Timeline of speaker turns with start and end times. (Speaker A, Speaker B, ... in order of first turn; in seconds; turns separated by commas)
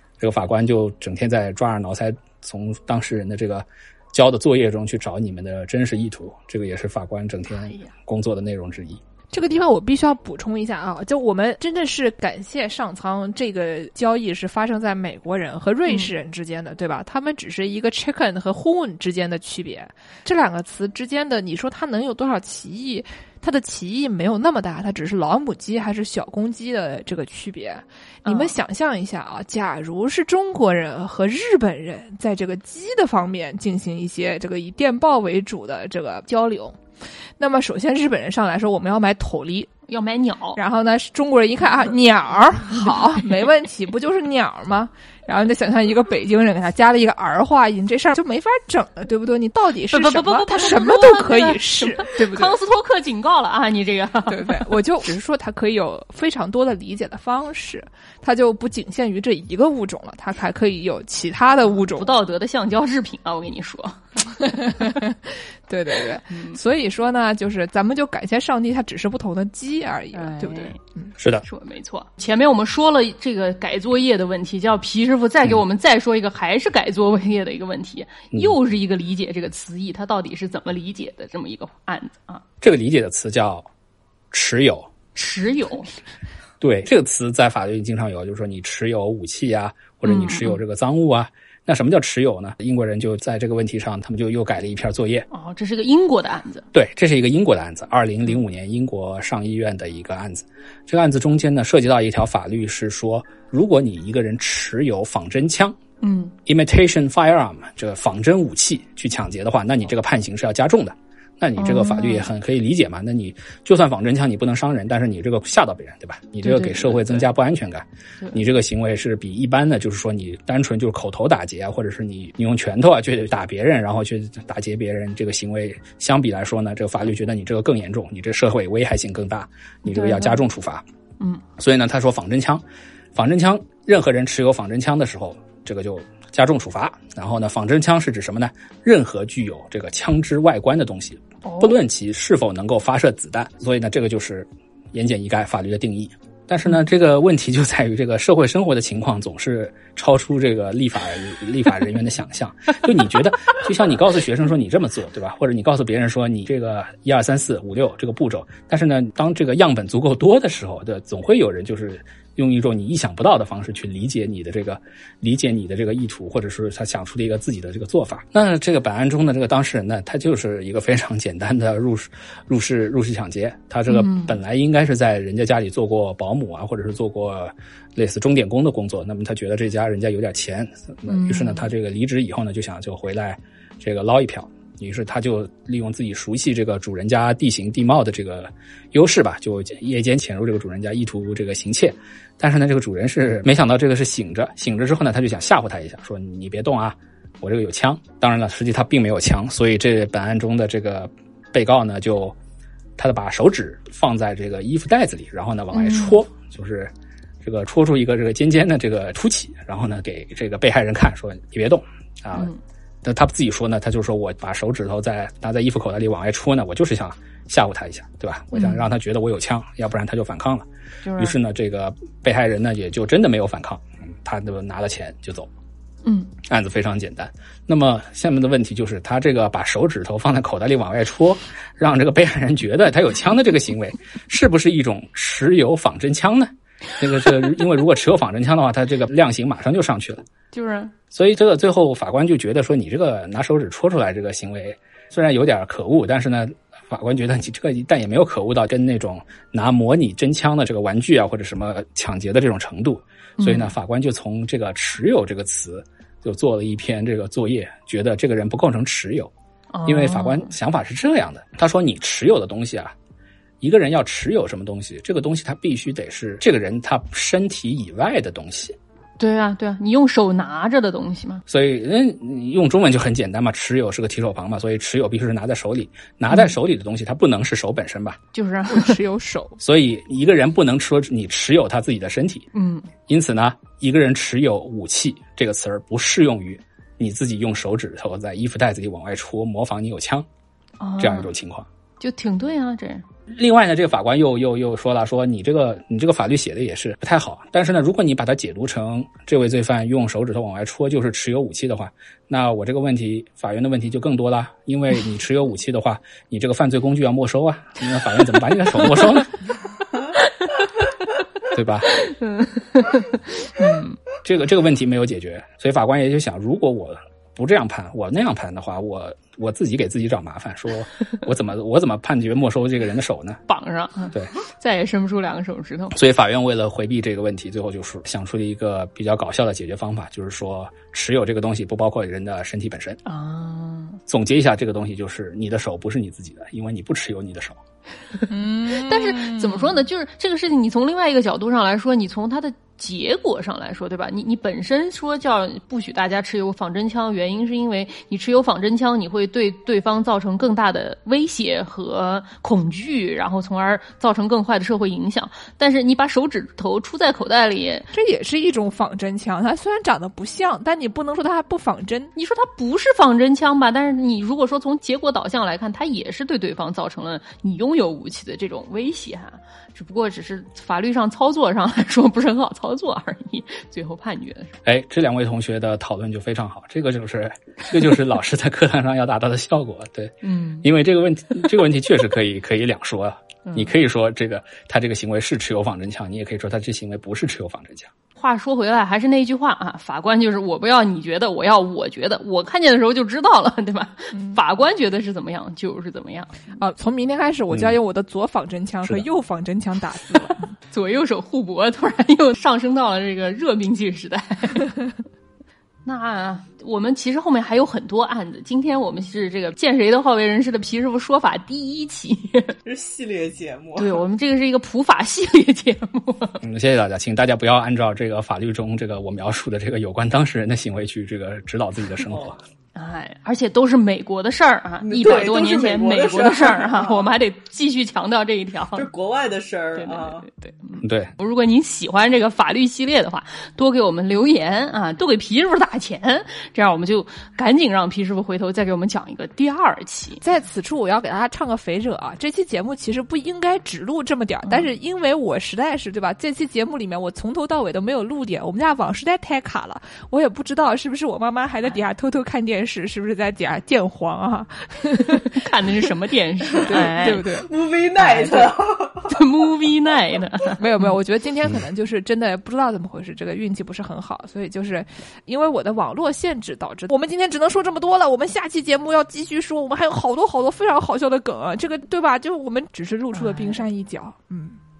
Speaker A: 0.2-9.0, Speaker B: 7.6-7.9, Speaker C: 9.3-36.8, Speaker B: 28.2-28.6, Speaker C: 37.4-39.7, Speaker B: 39.9-40.6, Speaker C: 40.5-52.5, Speaker B: 49.9-54.8, Speaker C: 54.3-62.1, Speaker B: 61.7-64.9, Speaker C: 64.5-71.1, Speaker B: 66.3-66.6, Speaker B: 70.1-70.8, Speaker A: 71.2-71.4, Speaker B: 71.4-82.4, Speaker A: 82.6-83.7, Speaker A: 84.3-84.9, Speaker B: 85.1-85.9, Speaker A: 86.6-95.3, Speaker B: 90.0-90.6, Speaker B: 95.3-96.7, Speaker A: 96.7-105.8, Speaker B: 106.0-106.3, Speaker A: 106.4-130.8, Speaker B: 111.6-112.2, Speaker B: 116.4-117.3, Speaker B: 129.8-130.4, Speaker A: 131.6-132.6, Speaker A: 133.1-202.4, Speaker B: 141.4-141.8, Speaker B: 173.9-174.3, Speaker B: 181.1-181.7, Speaker A: 203.0-212.5, Speaker B: 205.7-206.2, Speaker A: 213.0-225.5, Speaker B: 218.5-218.8, Speaker B: 221.0-221.3, Speaker B: 226.0-226.3, Speaker A: 226.4-240.2, Speaker B: 240.5-240.9, Speaker A: 241.1-259.3, Speaker B: 253.4-253.7, Speaker B: 259.7-260.5, Speaker A: 259.8-262.9, Speaker A: 263.6-268.8, Speaker B: 269.2-271.4, Speaker A: 271.5-278.2, Speaker B: 278.3-279.0, Speaker C: 278.7-279.6, Speaker A: 279.6-282.5, Speaker B: 282.5-282.9, Speaker A: 283.1-290.3, Speaker B: 290.8-291.3, Speaker A: 291.0-291.7, Speaker B: 292.0-293.0, Speaker A: 293.3-309.3, Speaker A: 311.5-311.9, Speaker B: 312.0-314.0, Speaker A: 314.2-323.4, Speaker B: 323.5-325.9, Speaker A: 325.9-333.0, Speaker B: 333.0-334.0, Speaker A: 334.1-337.6, Speaker B: 338.2-357.9, Speaker C: 338.3-339.8, Speaker C: 357.9-362.1, Speaker B: 362.1-374.6, Speaker A: 374.6-387.9, Speaker B: 380.2-380.7, Speaker B: 383.4-383.7, Speaker B: 388.2-396.3, Speaker C: 396.6-400.5, Speaker A: 397.5-397.8, Speaker B: 400.7-404.7, Speaker B: 405.9-412.5, Speaker D: 412.6-414.0, Speaker B: 413.8-416.4, Speaker A: 416.4-422.4, Speaker B: 422.7-428.9, Speaker D: 424.8-427.1, Speaker D: 428.7-430.2, Speaker B: 429.8-440.2, Speaker A: 430.8-431.1, Speaker C: 440.2-455.4, Speaker B: 455.2-457.2, Speaker C: 456.7-458.5, Speaker D: 456.7-459.1, Speaker B: 459.1-460.6, Speaker C: 460.6-474.6, Speaker B: 473.1-473.6